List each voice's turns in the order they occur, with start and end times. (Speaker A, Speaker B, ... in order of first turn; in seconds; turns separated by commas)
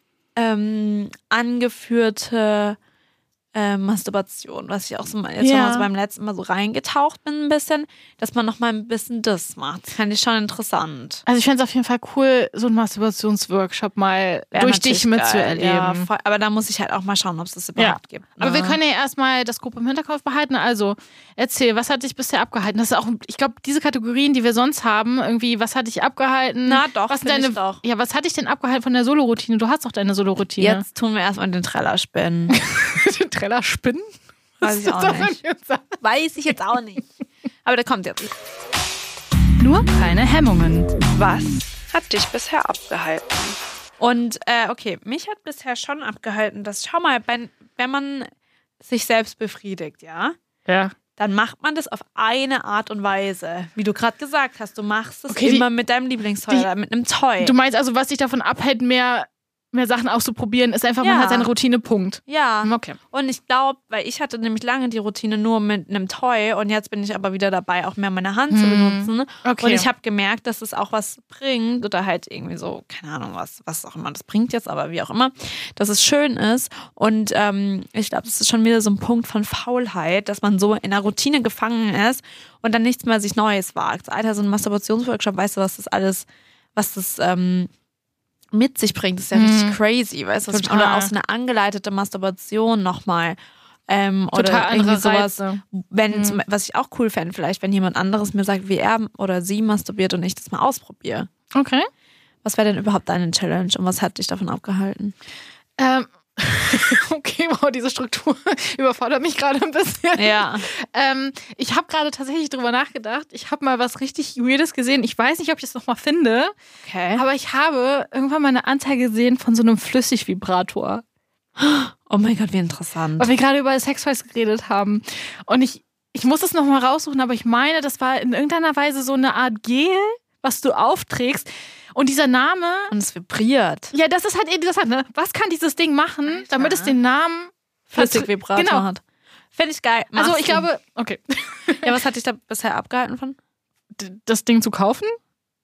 Speaker A: 0.3-2.8, Speaker A: 3.5-11.2, Speaker B: 5.4-5.9, Speaker B: 11.2-16.1, Speaker A: 14.5-18.8, Speaker B: 17.8-30.8, Speaker A: 26.6-27.8, Speaker A: 30.6-32.6, Speaker B: 32.5-36.0, Speaker A: 34.6-35.4, Speaker A: 36.0-37.1, Speaker A: 37.6-38.3, Speaker B: 39.6-40.9, Speaker A: 41.1-48.3, Speaker A: 48.8-50.4, Speaker B: 50.6-50.9, Speaker A: 51.1-57.5, Speaker B: 55.3-55.6, Speaker B: 57.4-63.0, Speaker A: 61.0-61.5, Speaker A: 62.3-87.7, Speaker B: 68.5-69.9, Speaker A: 88.5-93.4, Speaker B: 89.3-89.8, Speaker B: 90.5-91.1, Speaker A: 93.9-101.3, Speaker B: 94.3-96.4, Speaker B: 101.5-101.9, Speaker A: 102.4-105.1, Speaker B: 105.8-116.5, Speaker A: 110.2-110.7, Speaker A: 116.8-117.2, Speaker B: 117.1-121.0, Speaker A: 121.6-123.3, Speaker B: 123.2-132.9, Speaker A: 132.9-133.9, Speaker B: 133.9-138.8, Speaker A: 136.3-136.9, Speaker A: 137.9-139.0, Speaker A: 139.5-140.7, Speaker B: 140.2-141.9, Speaker A: 141.8-143.4, Speaker B: 143.9-145.2